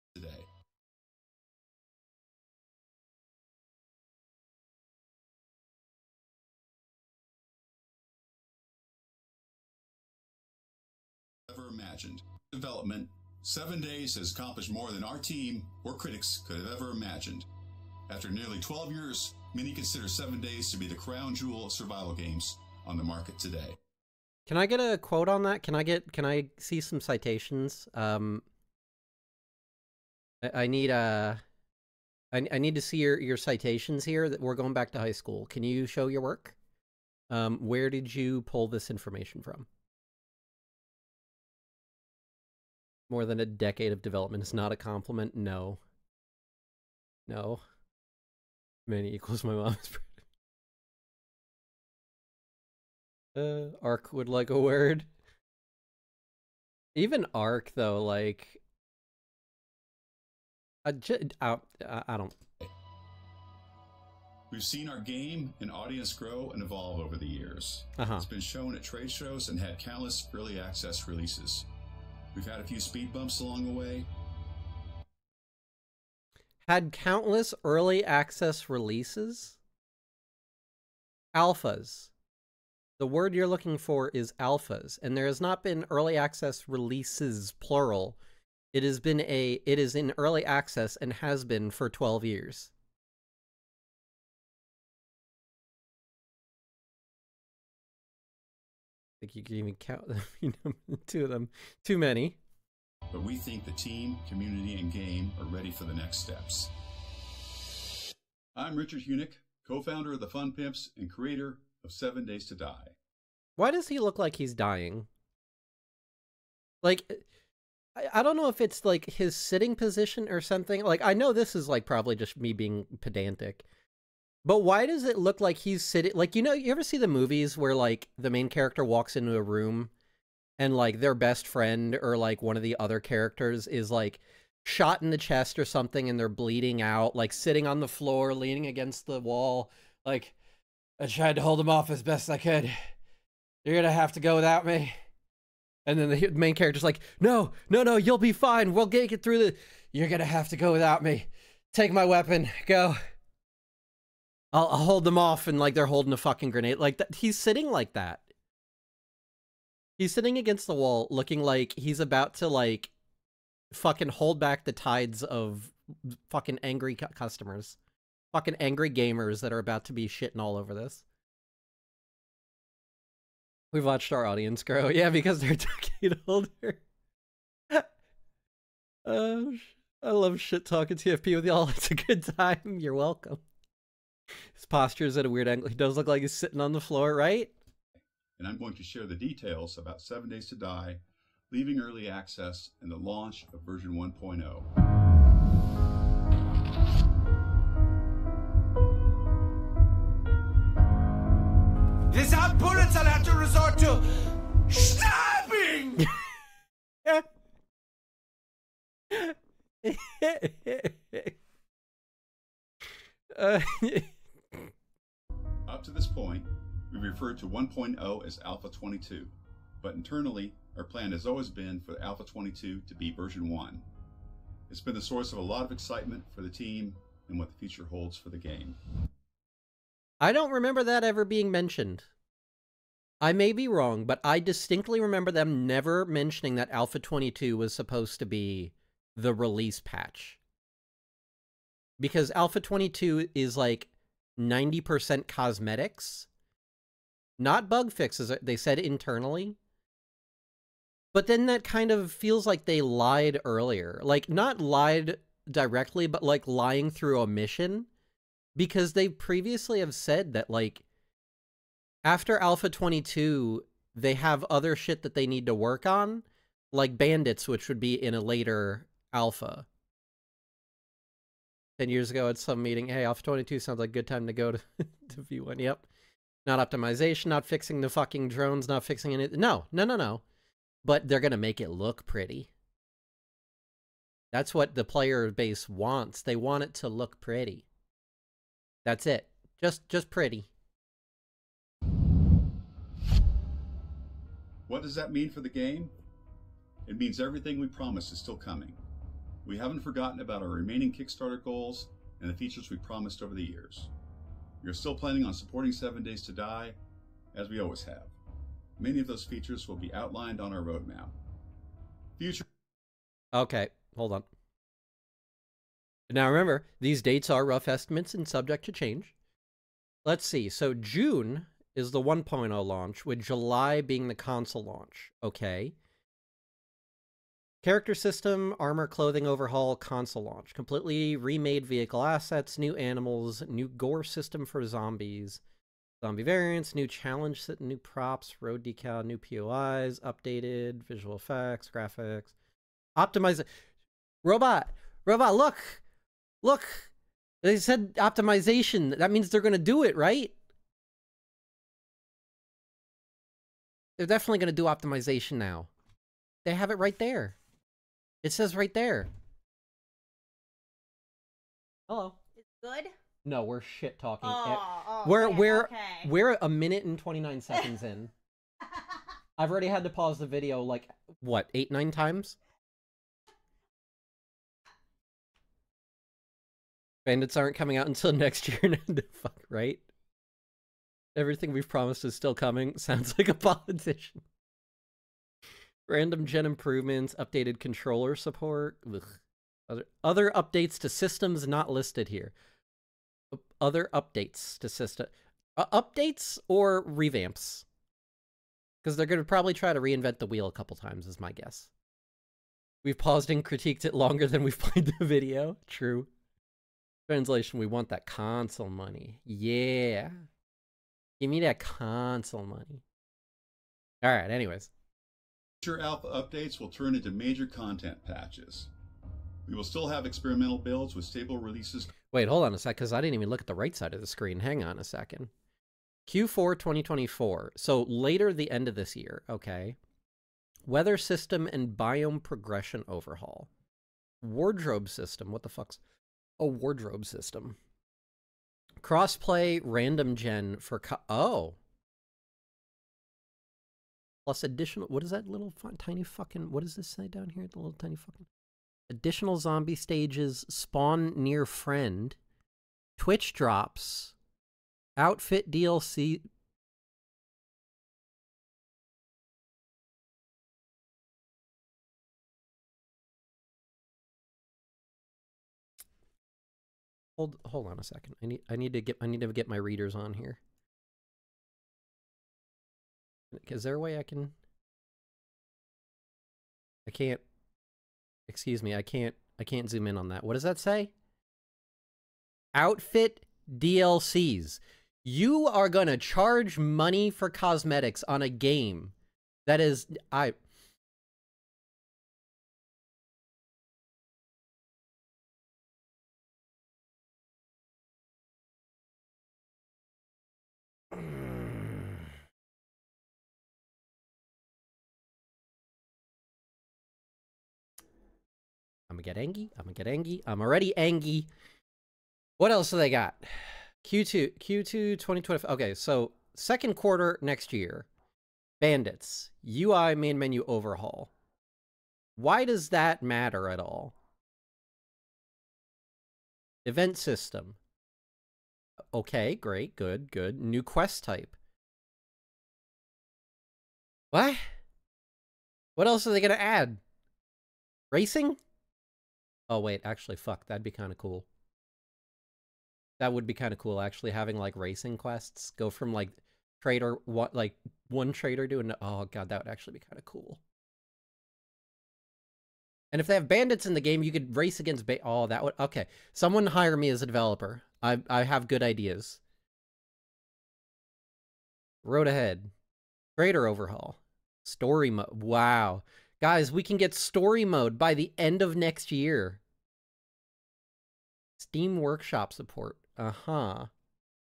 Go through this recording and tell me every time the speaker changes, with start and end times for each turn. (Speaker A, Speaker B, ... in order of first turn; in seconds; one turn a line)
Speaker A: 0.1-0.5
Speaker A: 11.5-17.5
Speaker A: 18.1-23.8
Speaker B: 24.5-28.4
Speaker B: 30.4-31.4
Speaker B: 32.3-36.6
Speaker B: 37.3-39.7
Speaker B: 43.1-45.8
Speaker B: 47.3-47.6
Speaker B: 48.9-50.2
Speaker B: 53.4-55.1
Speaker B: 57.0-58.6
Speaker B: 60.9-62.4
Speaker A: 64.5-71.7
Speaker B: 68.0-68.3
Speaker A: 72.3-74.1
Speaker B: 76.7-79.6
Speaker B: 81.3-82.1
Speaker B: 83.0-88.2
Speaker B: 88.7-92.7
Speaker B: 99.2-102.4
Speaker A: 103.1-106.7
Speaker A: 108.5-113.0
Speaker B: 113.6-115.1
Speaker B: 116.8-117.3
Speaker B: 118.0-123.7
Speaker B: 124.5-129.9
Speaker B: 130.6-140.4
Speaker B: 141.0-142.9
Speaker B: 143.6-145.0
Speaker B: 145.9-153.0
Speaker B: 154.5-158.2
Speaker B: 160.0-162.9
Speaker B: 163.7-167.8
Speaker B: 168.3-171.1
Speaker B: 173.7-176.8
Speaker B: 179.1-183.4
Speaker B: 184.6-187.5
Speaker A: 188.4-194.7
Speaker C: 202.1-206.1
Speaker B: 209.1-211.4
Speaker B: 213.3-214.7
Speaker A: 215.7-223.8
Speaker A: 224.7-228.8
Speaker B: 230.2-232.1
Speaker B: 233.2-240.4
Speaker B: 242.0-246.3
Speaker B: 247.4-249.6
Speaker B: 251.1-257.9
Speaker B: 258.6-260.8
Speaker B: 262.1-269.7
Speaker B: 271.8-275.9
Speaker B: 276.5-280.2
Speaker B: 280.8-282.5
Speaker B: 284.3-287.7
Speaker B: 288.9-290.5
Speaker A: 294.7-295.9
Speaker A: 296.9-298.8
Speaker A: 299.4-303.9
Speaker A: 304.6-306.8
Speaker A: 307.3-308.1
Speaker A: 308.8-311.1
Speaker A: 312.2-312.5
Speaker B: 313.3-314.3
Speaker B: 316.1-319.1
Speaker B: 320.1-325.8
Speaker B: 327.6-335.4
Speaker B: 336.0-342.3
Speaker B: 343.0-343.5
Speaker B: 344.2-345.8
Speaker B: 346.4-346.9
Speaker B: 347.4-350.3
Speaker B: 354.0-355.7
Speaker B: 356.4-357.4
Speaker B: 358.2-359.1
Speaker B: 361.9-362.2
Speaker D: 362.4-362.9
Speaker B: 363.2-368.1
Speaker D: 364.2-366.1
Speaker B: 369.4-372.4
Speaker B: 377.1-379.9
Speaker B: 381.1-384.2
Speaker B: 385.9-392.3
Speaker B: 393.3-397.7
Speaker B: 398.8-401.7
Speaker B: 402.8-406.1
Speaker B: 407.1-410.3
Speaker B: 411.2-412.8
Speaker B: 414.0-414.7
Speaker A: 415.6-418.7
Speaker A: 419.5-421.9
Speaker B: 422.1-425.3
Speaker B: 426.1-429.8
Speaker B: 430.7-433.5
Speaker B: 434.2-435.8
Speaker B: 436.4-437.6
Speaker B: 438.8-441.6
Speaker B: 444.3-448.3
Speaker B: 448.9-452.2
Speaker B: 453.0-454.1
Speaker B: 455.0-456.3
Speaker B: 467.2-470.4
Speaker B: 473.3-474.4
Speaker B: 476.9-477.2
Speaker B: 478.3-480.9
Speaker B: 482.6-488.9
Speaker B: 489.5-490.4
Speaker B: 500.9-501.8
Speaker B: 508.9-511.3
Speaker B: 512.4-517.9
Speaker B: 518.6-521.1
Speaker B: 522.2-524.0
Speaker B: 526.6-527.6
Speaker B: 528.9-531.4
Speaker B: 534.1-534.5
Speaker B: 535.8-536.8
Speaker B: 537.9-538.4
Speaker B: 539.5-541.3
Speaker B: 543.0-550.4
Speaker B: 552.9-559.2
Speaker B: 561.8-562.5
Speaker B: 563.2-569.4
Speaker B: 571.4-573.7